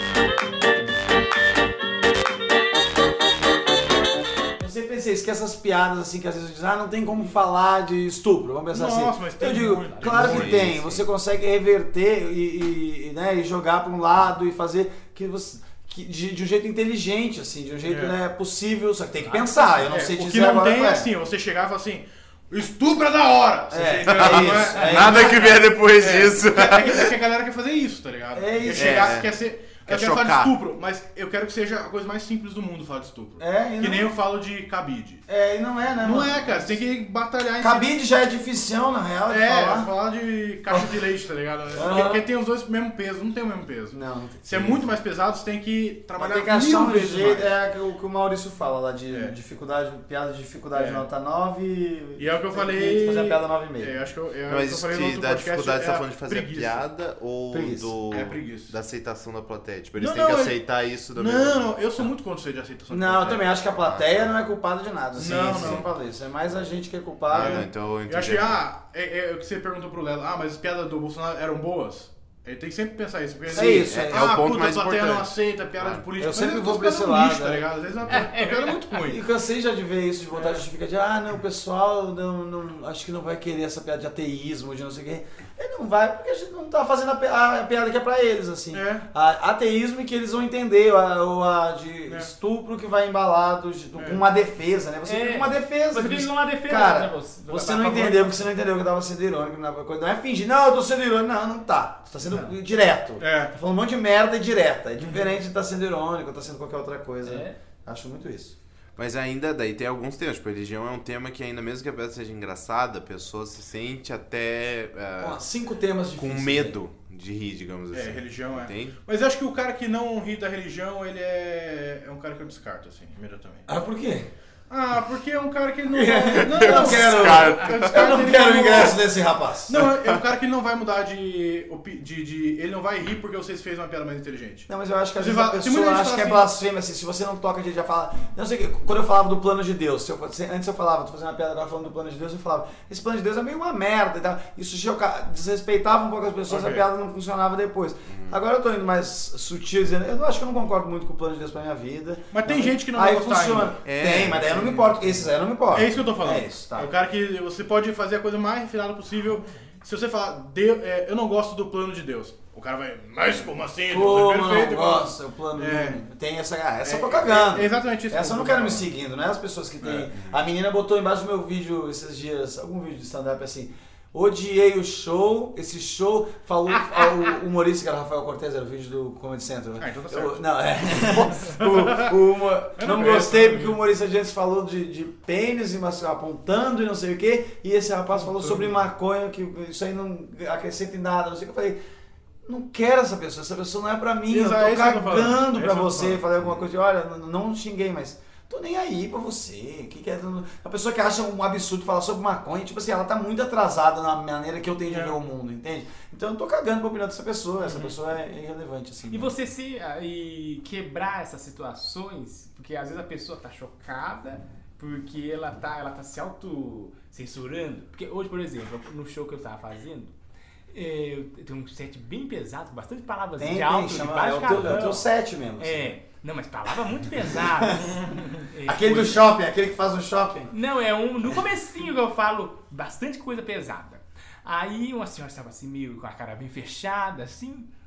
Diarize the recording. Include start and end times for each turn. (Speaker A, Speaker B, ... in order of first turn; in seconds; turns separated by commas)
Speaker A: 4.6-21.1, Speaker B: 8.7-10.7, Speaker C: 10.1-11.1, Speaker B: 17.9-18.2, Speaker D: 19.2-19.8, Speaker B: 19.8-35.2, Speaker A: 23.7-25.6, Speaker C: 24.1-27.1, Speaker A: 28.3-29.2, Speaker C: 28.7-29.3, Speaker C: 29.9-30.5, Speaker A: 33.4-34.1, Speaker A: 35.3-36.8, Speaker B: 36.0-37.9, Speaker A: 37.6-39.9, Speaker B: 39.3-47.5, Speaker A: 41.7-42.2, Speaker A: 43.9-44.9, Speaker A: 46.2-53.9, Speaker B: 49.1-49.4, Speaker B: 50.7-51.1, Speaker B: 52.2-56.9, Speaker C: 54.5-61.7, Speaker A: 57.5-57.9, Speaker B: 58.1-58.8, Speaker B: 60.0-60.6, Speaker B: 61.1-63.5, Speaker A: 62.9-67.7, Speaker C: 63.8-64.1, Speaker B: 65.2-65.9, Speaker C: 65.2-65.9, Speaker C: 67.3-68.6, Speaker B: 67.4-79.2, Speaker A: 73.5-74.3, Speaker C: 73.5-76.0, Speaker A: 76.2-78.2, Speaker D: 78.1-78.9, Speaker A: 79.0-108.5, Speaker B: 80.3-80.6, Speaker B: 88.7-89.1, Speaker B: 94.0-94.2, Speaker D: 95.0-98.5, Speaker B: 103.2-103.5, Speaker D: 107.2-107.6, Speaker C: 109.0-115.4, Speaker A: 115.2-116.8, Speaker C: 116.2-119.0, Speaker B: 117.9-123.7, Speaker A: 123.7-124.3, Speaker B: 124.7-129.0, Speaker A: 125.9-129.9, Speaker C: 126.4-128.1, Speaker B: 129.7-134.7, Speaker A: 134.7-156.9, Speaker B: 135.2-136.5, Speaker B: 146.5-146.9, Speaker C: 148.1-148.4, Speaker B: 152.3-153.8, Speaker C: 153.9-155.1, Speaker B: 155.7-166.0, Speaker A: 163.9-191.8, Speaker B: 166.8-168.9, Speaker B: 169.8-170.3, Speaker B: 179.8-182.1, Speaker B: 182.8-183.8, Speaker B: 188.2-188.7, Speaker A: 192.5-209.3, Speaker B: 194.3-196.2, Speaker B: 204.9-205.2, Speaker B: 207.7-207.9, Speaker D: 209.1-220.1, Speaker D: 220.7-225.1, Speaker A: 223.4-226.0, Speaker D: 225.6-229.2, Speaker A: 227.3-228.0, Speaker A: 228.7-230.5, Speaker D: 230.5-237.7